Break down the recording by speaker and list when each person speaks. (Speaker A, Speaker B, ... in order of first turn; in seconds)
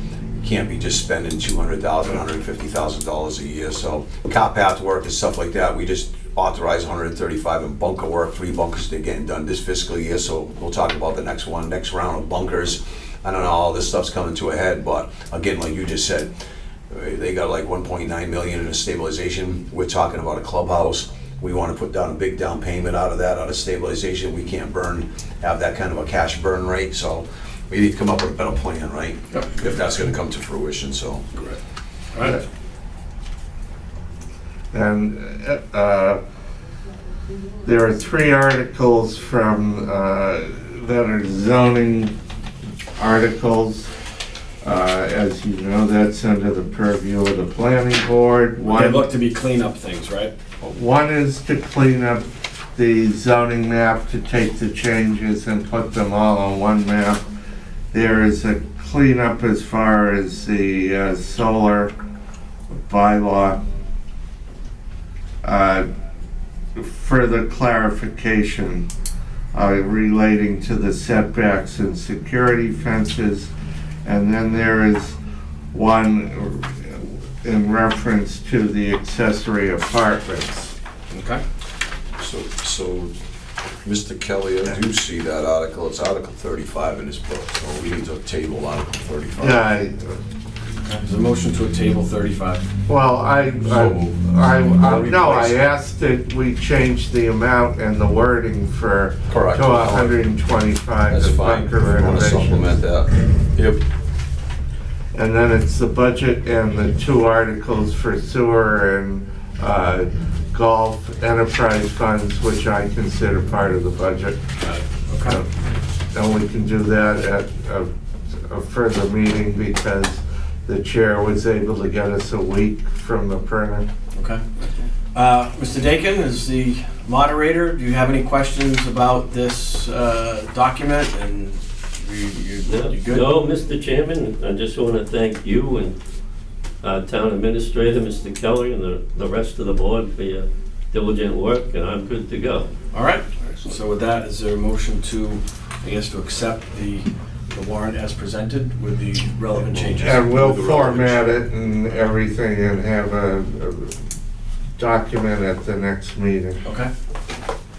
Speaker A: 0.4-16.3, 16.9-31.2, 82.2-83.1, 83.8-89.7, 93.7-94.1, 94.8-95.6, 99.3-100.2, 101.1-103.8, 149.7-151.4
Speaker B: 32.1-32.4, 48.6-50.3, 81.1-81.4, 90.9-92.7, 114.6-115.4, 124.1-124.4, 125.1-133.3, 142.9-150.3, 156.6-156.9
Speaker C: 32.2-32.4, 34.7-36.2, 37.6-42.1, 43.0-43.9, 44.6-49.1, 50.6-57.2, 57.9-61.9, 62.7-63.6, 65.4-65.9, 66.8-68.9, 69.5-73.5, 74.0-75.2, 75.7-80.7, 89.4-90.2, 92.9-102.8, 105.1-114.4, 116.1-117.9, 118.5-123.9, 150.0-153.9, 154.8-156.6
Speaker D: 132.7-135.9, 136.8-142.7